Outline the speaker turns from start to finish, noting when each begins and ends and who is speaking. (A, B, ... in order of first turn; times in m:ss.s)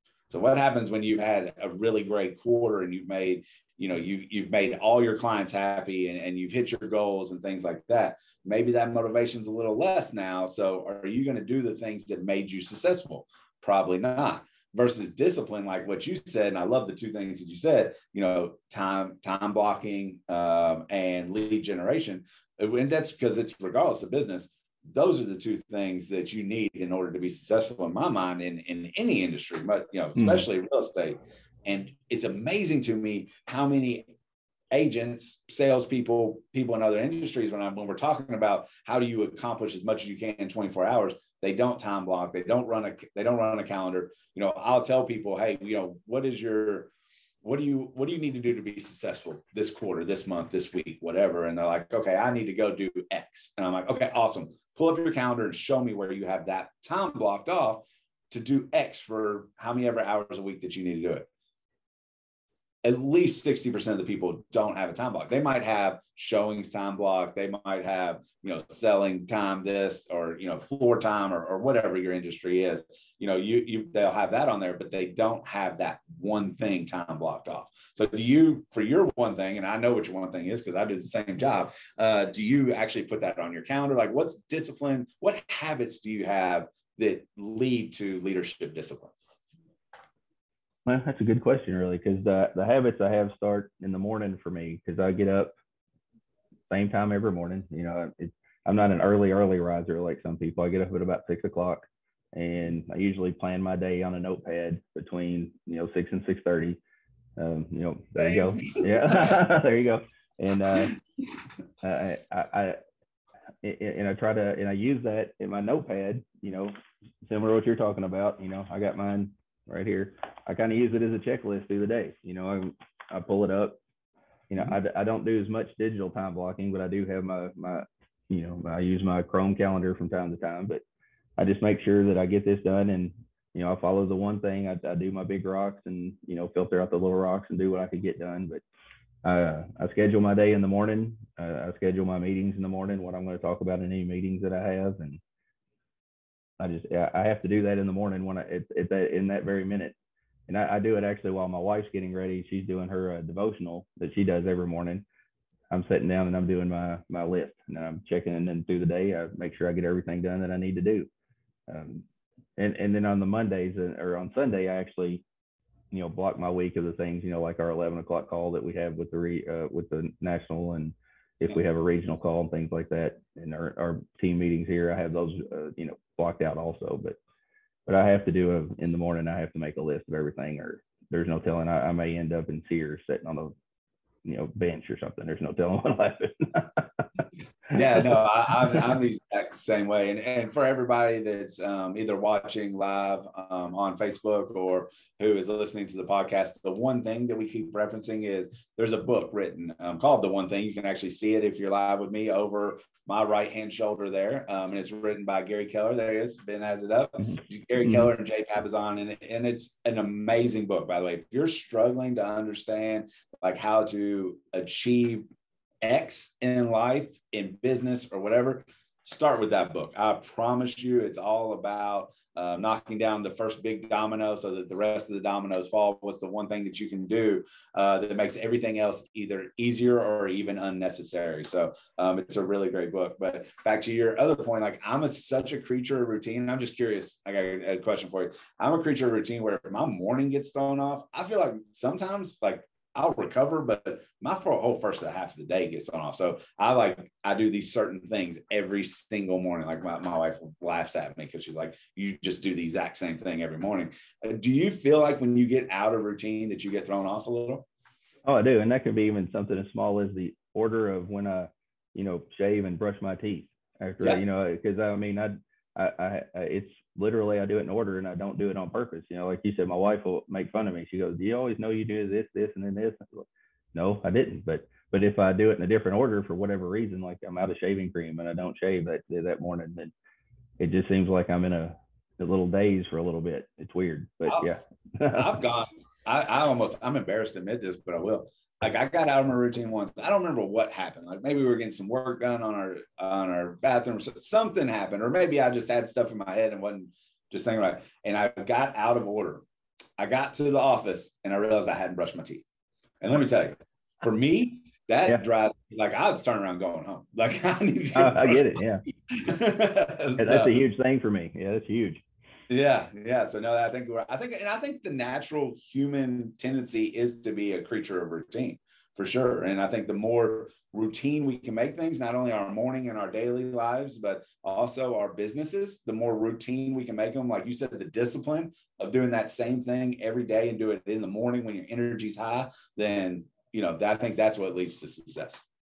0:00.3-0:34.1 A
0:30.2-0:30.4 B
0:34.7-0:46.9 A
0:47.4-1:01.3 A
1:02.8-1:29.1 A
1:30.8-1:35.5 B
1:36.7-1:46.8 B
1:47.4-1:51.0 B
1:48.2-1:49.4 A
1:51.8-1:52.8 B
1:53.6-2:03.8 B
2:04.5-2:10.8 B
2:11.4-2:18.6 B
2:19.2-2:25.2 B
2:26.6-2:29.9 B
2:30.5-2:35.0 B
2:35.7-2:41.1 B
2:41.7-2:42.0 B
2:42.6-2:45.2 B
2:45.9-2:57.2 B
2:57.8-3:03.5 B
3:04.2-3:07.0 B
3:07.7-3:35.2 A
3:07.8-3:08.1 B
3:27.8-3:28.1 B
3:35.8-4:17.6 A
4:18.2-4:39.9 B
4:40.6-4:45.3 B
4:45.1-4:59.4 A
5:00.0-5:02.4 A
5:03.0-5:10.6 A
5:07.9-5:08.8 B
5:10.2-5:12.0 B
5:12.5-5:35.4 A